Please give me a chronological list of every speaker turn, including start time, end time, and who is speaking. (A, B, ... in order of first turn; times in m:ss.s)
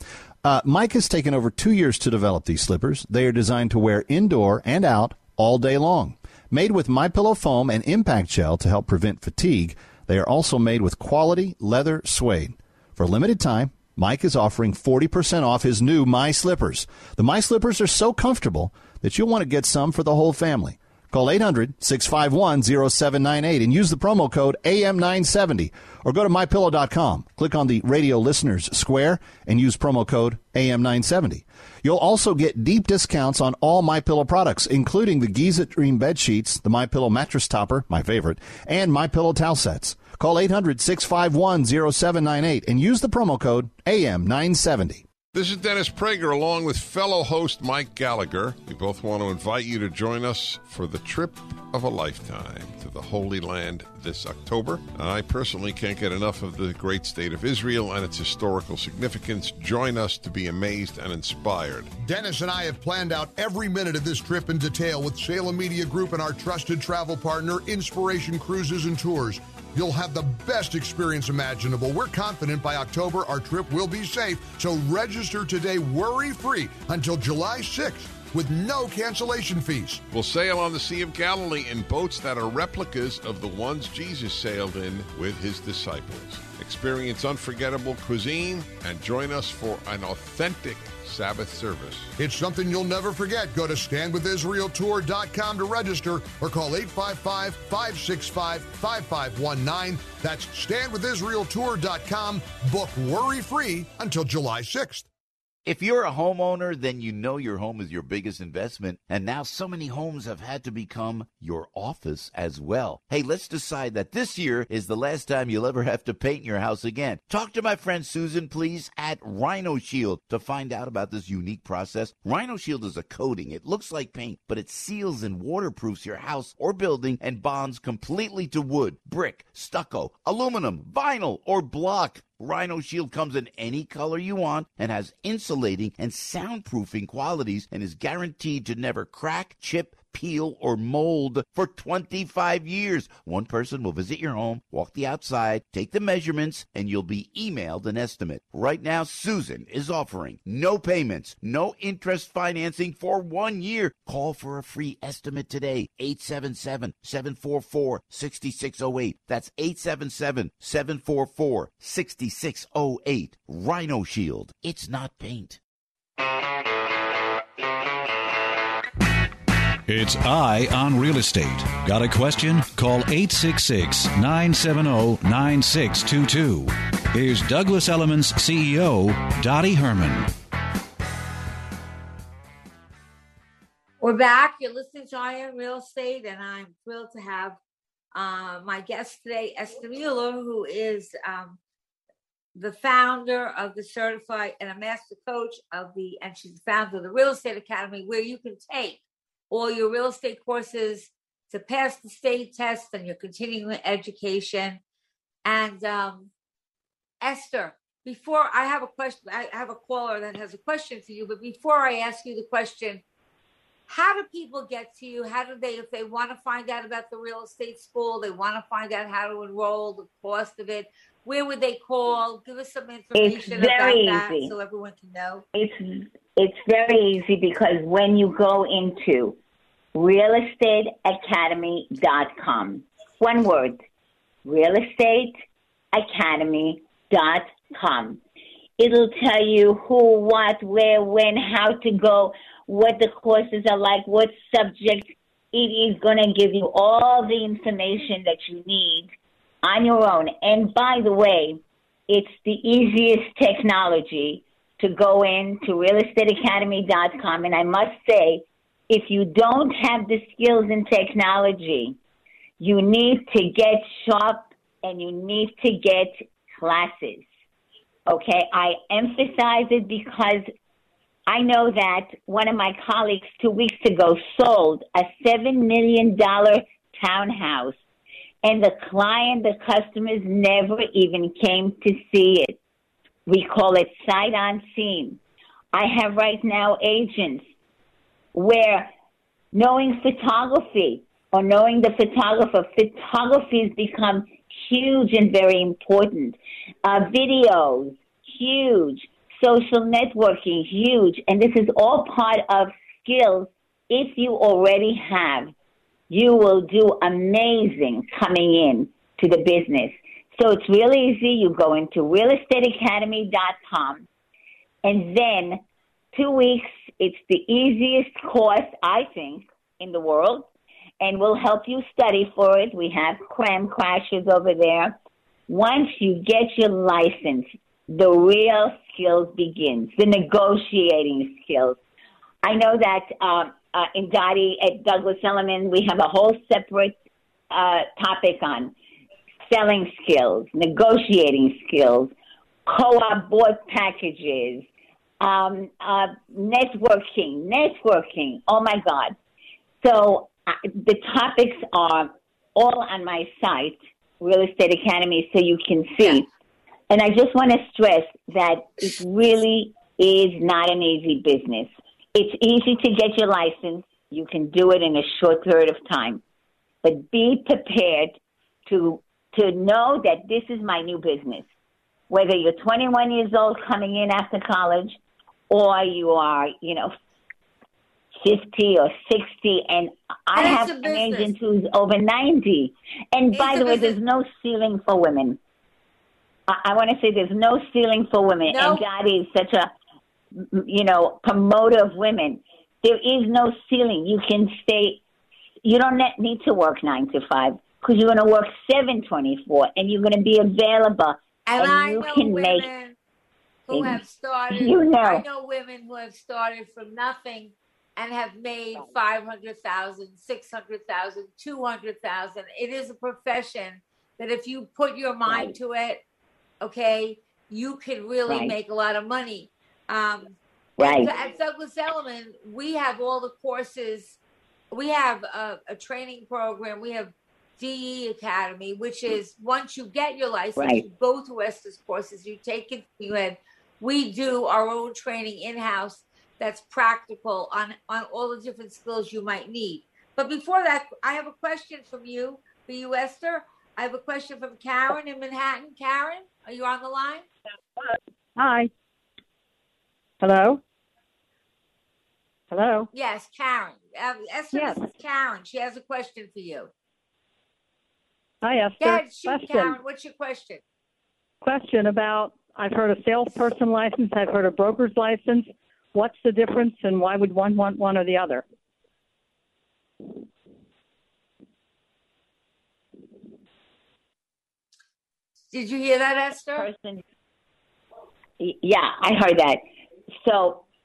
0:00.4-0:45.0 A
0:45.3-1:01.9 B
1:02.0-1:20.0 C
1:20.1-1:32.1 B
1:32.2-1:45.1 C
1:45.6-2:45.6 D
2:49.9-3:00.3 E
3:04.0-3:07.6 F
3:08.1-3:11.6 F
3:12.6-3:24.8 F
3:25.4-3:26.3 F
3:27.2-3:33.0 F
3:33.9-3:45.4 F
3:43.2-3:44.5 G
3:45.5-3:49.4 G
3:50.0-3:53.8 G
3:54.4-3:55.4 G
3:55.9-3:58.2 G
3:58.8-4:09.1 G
4:09.6-4:22.0 G
4:22.6-4:27.3 G
4:28.1-4:30.5 G
4:31.3-4:37.8 G
4:38.4-4:42.6 G
4:43.3-4:45.2 G
4:45.7-4:47.4 G
4:48.3-4:48.9 G
4:49.5-5:05.5 G
5:06.1-5:14.1 G
5:14.8-5:15.6 G
5:16.1-5:20.5 G
5:21.0-5:25.0 G
5:25.5-5:31.8 G
5:32.4-5:37.0 G
5:37.5-5:38.7 G
5:39.5-5:42.1 G
5:42.7-5:44.7 G
5:45.2-5:49.2 G
5:49.8-5:56.3 G
5:56.9-6:06.2 G
6:06.8-6:11.5 G
6:12.1-6:15.0 G
6:15.5-6:17.0 G
6:18.2-6:25.4 G
6:20.3-6:21.3 F
6:23.3-6:24.0 F
6:26.5-6:29.7 G
6:28.5-6:28.8 F
6:30.3-6:35.0 G
6:35.6-6:42.7 G
6:41.5-6:43.0 F
6:43.7-6:56.0 F
6:43.7-6:44.0 G
6:44.5-6:45.2 G
6:55.3-6:55.6 G
6:56.6-7:04.2 F
6:58.3-6:58.6 G
7:00.8-7:01.1 G
7:04.7-7:27.3 F
7:10.6-7:10.8 G
7:27.8-7:28.7 H
7:30.2-7:30.6 H
7:32.5-7:32.9 H
7:32.9-7:36.7 F
7:34.5-7:34.9 H
7:38.4-7:39.8 H
7:38.8-7:40.6 F
7:41.4-7:48.4 H
7:55.5-7:56.7 F
7:56.6-7:57.0 G
7:58.4-7:59.6 G
8:00.2-8:00.6 G